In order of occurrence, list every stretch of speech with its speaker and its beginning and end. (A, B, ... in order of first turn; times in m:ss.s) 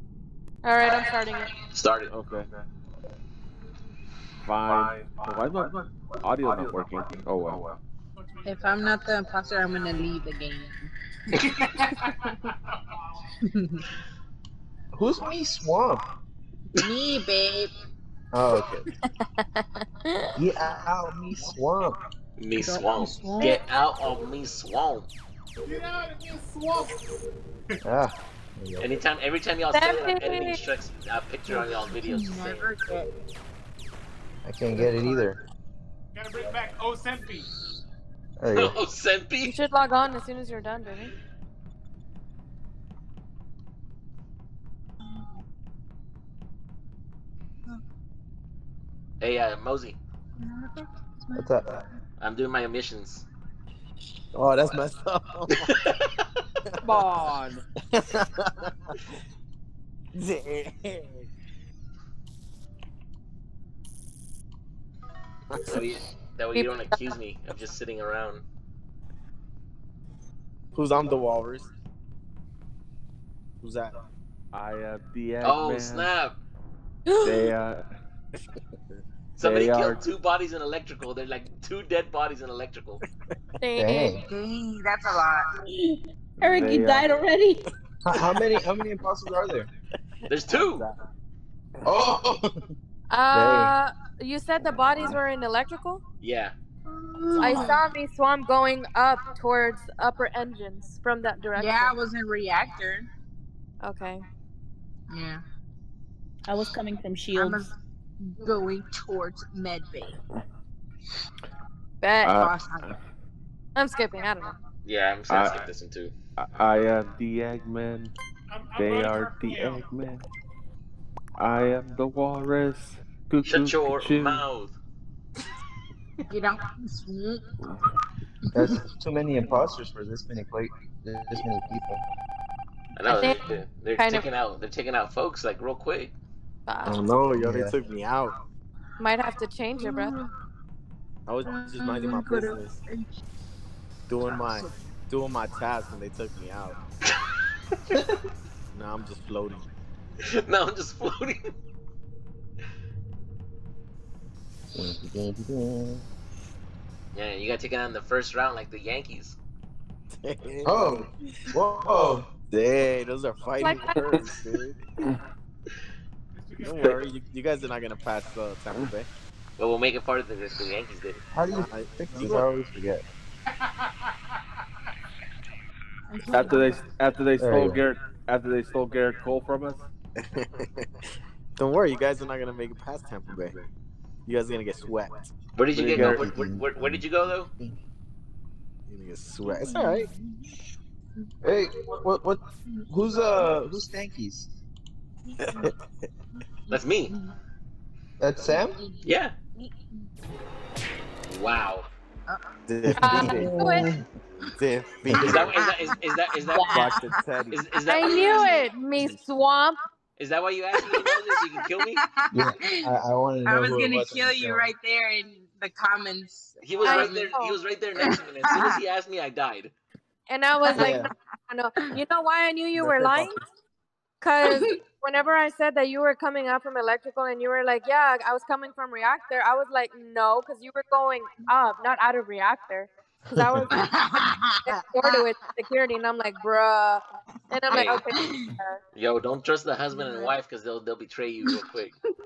0:00.6-0:01.5 A
0:01.7-0:02.1 B
0:02.1-0:02.5 C
0:04.4-0:05.7 C
0:06.2-0:07.6 C
0:08.4-0:10.9 D
0:11.8-0:12.3 E
0:13.4-0:13.8 D
0:14.9-0:16.0 F
0:16.7-0:17.7 D
0:18.3-0:18.9 F
0:19.2-0:19.6 D
0:20.4-0:22.0 F
0:22.4-0:25.1 B
0:22.6-0:23.6 D
0:25.6-0:27.0 E
0:27.8-0:29.0 F
0:28.8-0:32.7 B
0:29.7-0:30.6 A
0:31.5-0:33.1 D
0:34.4-0:35.4 F
0:36.2-0:37.5 E
0:38.4-0:38.8 F
0:38.5-0:39.6 B
0:39.4-0:41.1 A
0:49.2-0:50.0 B
0:50.4-0:51.5 D
0:51.3-0:51.8 F
0:52.2-0:53.3 B
0:54.3-0:55.7 G
0:55.5-0:56.0 B
0:56.8-0:57.6 C
1:00.2-1:01.2 G
1:05.7-1:08.4 B
1:06.6-1:07.0 A
1:10.7-1:11.7 G
1:13.6-1:13.9 G
1:14.5-1:16.1 C
1:15.4-1:16.4 B
1:17.1-1:17.5 A
1:17.2-1:17.8 C
1:19.4-1:23.0 B
1:19.4-1:20.0 C
1:23.6-1:24.2 A
1:23.8-1:24.2 F
1:24.2-1:25.5 D
1:26.4-1:27.2 C
1:26.4-1:27.3 H
1:28.0-1:29.7 F
1:30.3-1:30.9 B
1:31.8-1:32.6 F
1:33.1-1:36.0 A
1:33.3-1:33.7 F
1:34.8-1:35.2 F
1:36.2-1:36.6 B
1:36.9-1:37.8 D
1:37.4-1:42.0 A
1:41.6-1:43.1 D
1:43.8-1:44.2 A
1:45.1-1:45.4 D
1:46.5-1:47.6 H
1:47.3-1:47.7 D
1:48.2-1:50.2 D
1:52.0-1:52.3 A
1:52.2-1:53.0 C
1:52.3-1:53.0 D
1:53.8-1:54.6 A
1:54.8-1:56.2 B
1:55.3-1:55.6 C
1:56.4-1:58.1 C
1:58.5-1:59.8 E
1:58.8-2:00.3 C
2:01.4-2:04.5 C
2:03.4-2:04.8 B
2:06.3-2:07.5 D
2:08.5-2:08.7 D
2:08.5-2:12.0 F
2:13.0-2:16.1 B
2:13.1-2:13.4 A
2:14.0-2:14.3 A
2:16.7-2:17.0 A
2:16.9-2:17.8 F
2:17.0-2:18.4 G
2:19.0-2:20.2 A
2:21.3-2:22.8 G
2:22.2-2:22.6 D
2:24.1-2:26.8 G
2:28.7-2:29.6 G
2:30.3-2:31.4 B
2:34.8-2:36.1 F
2:37.1-2:39.4 B
2:40.2-2:40.8 G
2:40.6-2:42.3 F
2:42.5-2:44.8 G
2:43.6-2:44.0 A
2:44.0-2:44.3 C
2:46.4-2:46.9 E
2:46.6-2:49.1 G
2:49.6-2:51.2 B
2:51.3-2:53.0 F
2:51.5-2:52.5 G
2:56.1-2:56.8 D
2:56.3-2:59.8 C
2:57.4-2:57.8 F
3:00.2-3:00.9 G
3:01.6-3:03.6 G
3:04.3-3:05.2 G
3:05.6-3:07.5 B
3:05.7-3:06.3 C
3:05.9-3:07.8 F
3:08.9-3:10.1 G
3:09.5-3:10.4 D
3:11.4-3:14.5 F
3:15.4-3:15.7 D
3:16.7-3:17.1 B
3:18.2-3:18.8 F
3:18.6-3:19.0 D
3:19.0-3:19.4 B
3:19.6-3:20.0 D
3:21.3-3:21.9 B
3:22.3-3:22.5 D
3:22.7-3:23.5 G
3:22.9-3:24.0 F
3:23.0-3:23.9 A
3:24.6-3:25.5 G
3:25.1-3:25.5 F
3:25.2-3:27.0 B
3:25.4-3:26.0 D
3:26.5-3:27.3 D
3:26.6-3:27.6 G
3:27.5-3:28.7 B
3:27.9-3:29.8 A
3:28.3-3:28.6 D
3:30.2-3:32.0 B
3:30.8-3:31.4 D
3:32.1-3:32.9 D
3:32.3-3:34.7 F
3:33.4-3:37.3 D
3:36.6-3:39.7 B
3:36.8-3:37.6 A
3:38.0-3:38.7 D
3:40.3-3:43.4 A
3:40.7-3:41.0 D
3:40.8-3:41.1 F
3:42.8-3:43.4 F
3:44.2-3:53.8 A
3:53.7-3:55.3 D
3:54.6-3:58.8 A
3:57.7-3:58.0 B
3:58.9-4:02.0 B
4:00.0-4:00.4 D